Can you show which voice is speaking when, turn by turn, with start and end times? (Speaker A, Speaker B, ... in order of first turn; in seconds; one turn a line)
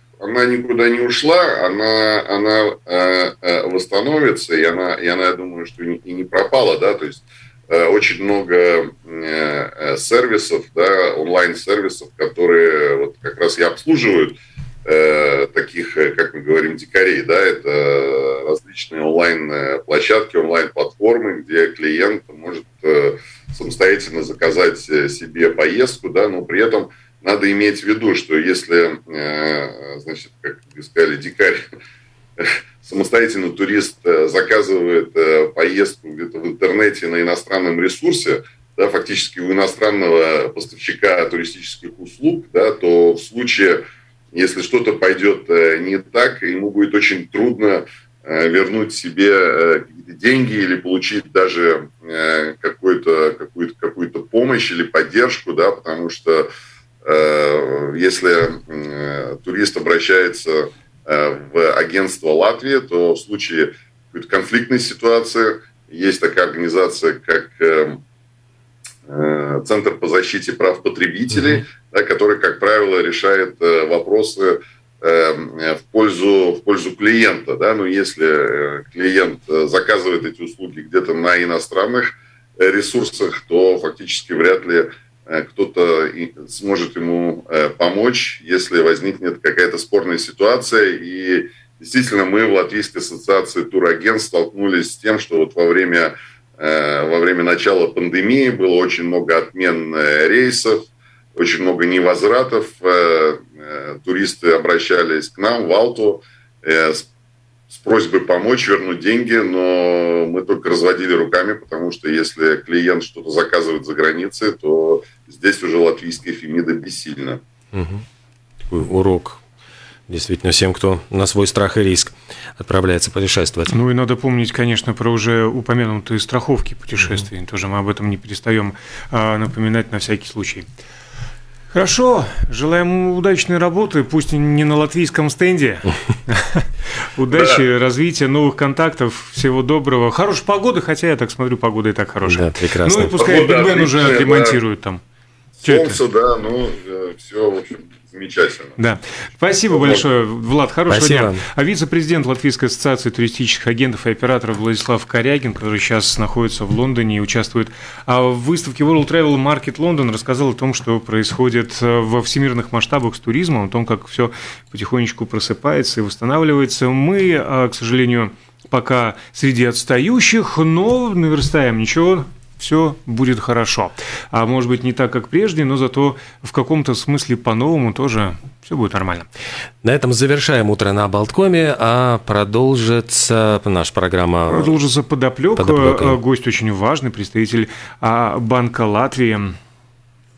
Speaker A: 0.2-31.6
Speaker A: 32.4-56.5
Speaker A: 57.0-68.0
Speaker A: 69.1-100.8
Speaker A: 101.4-107.1
Speaker A: 107.7-117.4
Speaker B: 117.7-118.0
Speaker B: 118.7-119.4
Speaker B: 120.1-123.7
Speaker C: 123.7-130.7
Speaker C: 131.7-145.0
Speaker A: 137.3-137.6
Speaker B: 142.2-143.2
Speaker A: 143.2-144.6
Speaker A: 145.6-148.8
Speaker C: 145.6-146.0
Speaker C: 148.8-179.3
Speaker A: 149.7-150.1
Speaker B: 150.9-151.4
Speaker B: 179.8-184.8
Speaker C: 184.5-189.5
Speaker B: 185.6-186.2